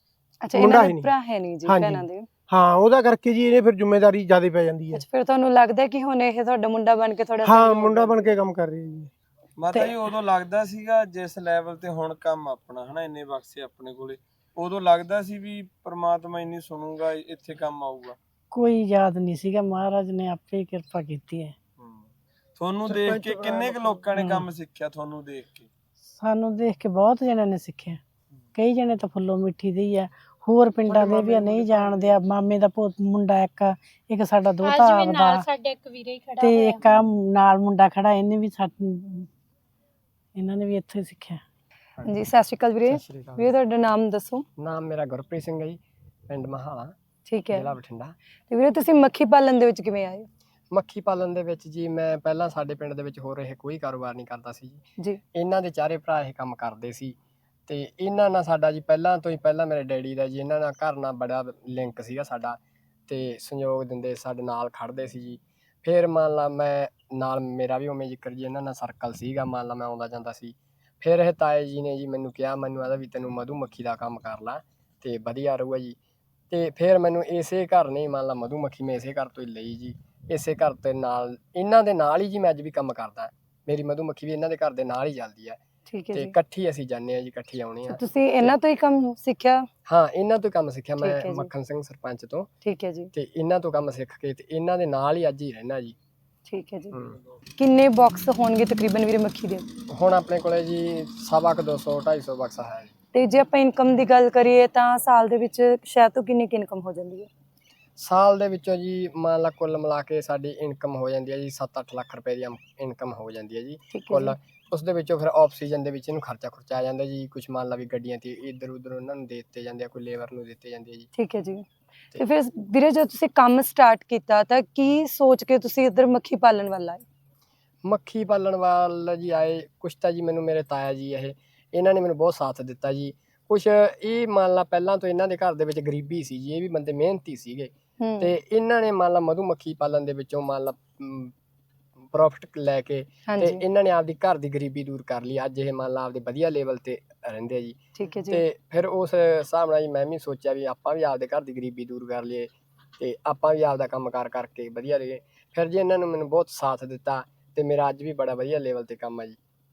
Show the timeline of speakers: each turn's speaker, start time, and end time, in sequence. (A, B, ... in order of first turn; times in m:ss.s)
0:00.4-0:02.3 A
0:00.6-0:01.1 B
0:01.7-0:05.0 B
0:04.9-0:08.4 A
0:07.4-0:09.1 B
0:09.6-0:18.2 C
0:18.5-0:21.6 D
0:21.8-0:25.7 C
0:22.9-0:24.0 B
0:24.2-0:24.4 D
0:26.2-0:28.0 D
0:28.6-0:35.4 D
0:30.9-0:32.2 C
0:34.6-0:36.8 E
0:36.4-0:39.3 D
0:40.4-0:41.4 D
0:42.0-0:44.4 A
0:42.9-0:43.5 F
0:44.6-0:46.9 F
0:47.3-0:47.8 A
0:47.5-0:48.1 F
0:48.5-0:50.3 A
0:50.7-0:54.8 F
0:55.3-0:57.2 F
0:57.7-1:16.0 F
1:16.5-1:25.6 F
1:25.9-1:26.4 A
1:26.1-1:28.5 F
1:27.9-1:29.7 A
1:29.9-1:32.5 F
1:31.0-1:31.5 A
1:32.6-1:33.1 A
1:33.1-1:36.0 F
1:36.5-1:37.0 A
1:37.6-1:39.7 A
1:39.9-1:42.9 F
1:43.1-1:47.3 A
1:48.0-2:01.1 F
1:53.9-1:54.4 A
2:01.1-2:07.0 A
2:07.8-2:21.3 F
2:18.0-2:18.3 A
2:22.1-2:39.4 F
2:23.3-2:23.6 A
2:27.9-2:28.4 A